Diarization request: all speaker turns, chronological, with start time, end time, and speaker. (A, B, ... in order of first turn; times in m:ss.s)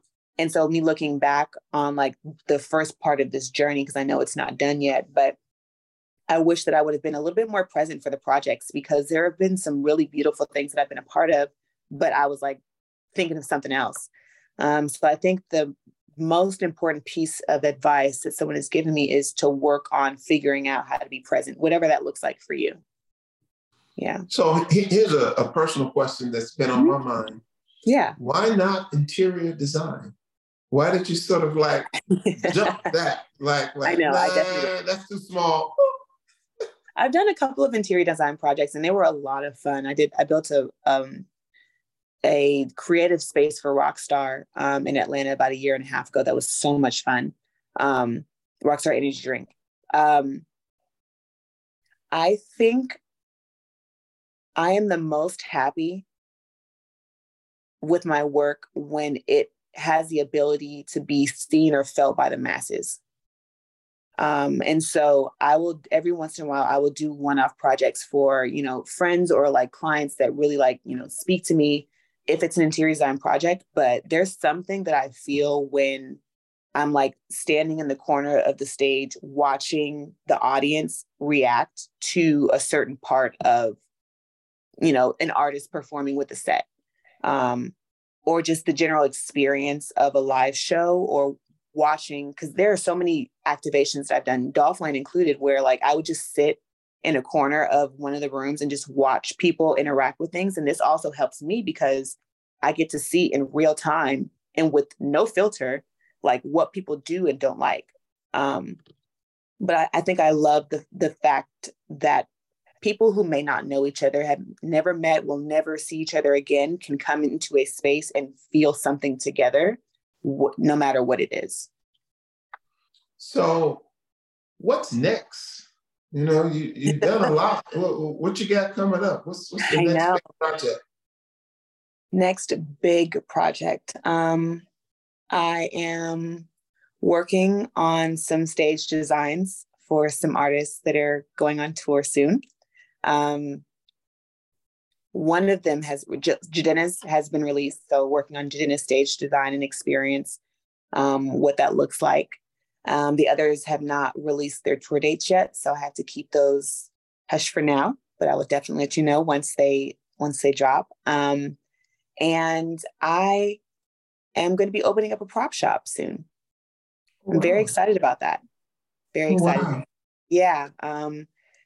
0:00.4-0:05.4 A
0:06.3-0:12.6 A
0:13.1-0:22.8 A
0:24.0-0:24.3 A
0:24.3-0:27.4 B
0:27.8-0:28.2 A
0:28.2-0:30.1 B
0:30.7-0:31.9 B
0:32.2-0:32.5 A
0:32.4-0:35.8 B
0:33.8-0:34.7 A
0:37.0-0:41.3 A
0:42.2-0:50.4 A
0:52.1-0:53.0 A
0:54.6-0:56.1 A
0:57.8-1:03.0 A
1:04.2-1:16.2 A
1:16.8-1:23.8 A
1:24.8-1:26.6 A
1:27.2-1:27.7 A
1:28.3-1:48.8 A
1:49.6-1:52.3 A
1:52.8-2:01.7 A
2:03.2-2:03.9 B
2:04.6-2:10.8 B
2:09.6-2:10.2 A
2:12.1-2:14.6 A
2:15.3-2:16.5 A
2:17.0-2:22.4 A
2:23.0-2:23.6 A
2:25.1-2:30.4 A
2:30.9-2:41.6 A
2:42.2-2:43.6 A
2:44.4-2:46.3 A
2:47.2-2:47.7 B
2:47.3-2:48.4 A
2:49.1-2:49.8 A
2:49.3-2:49.8 B
2:50.3-2:51.3 A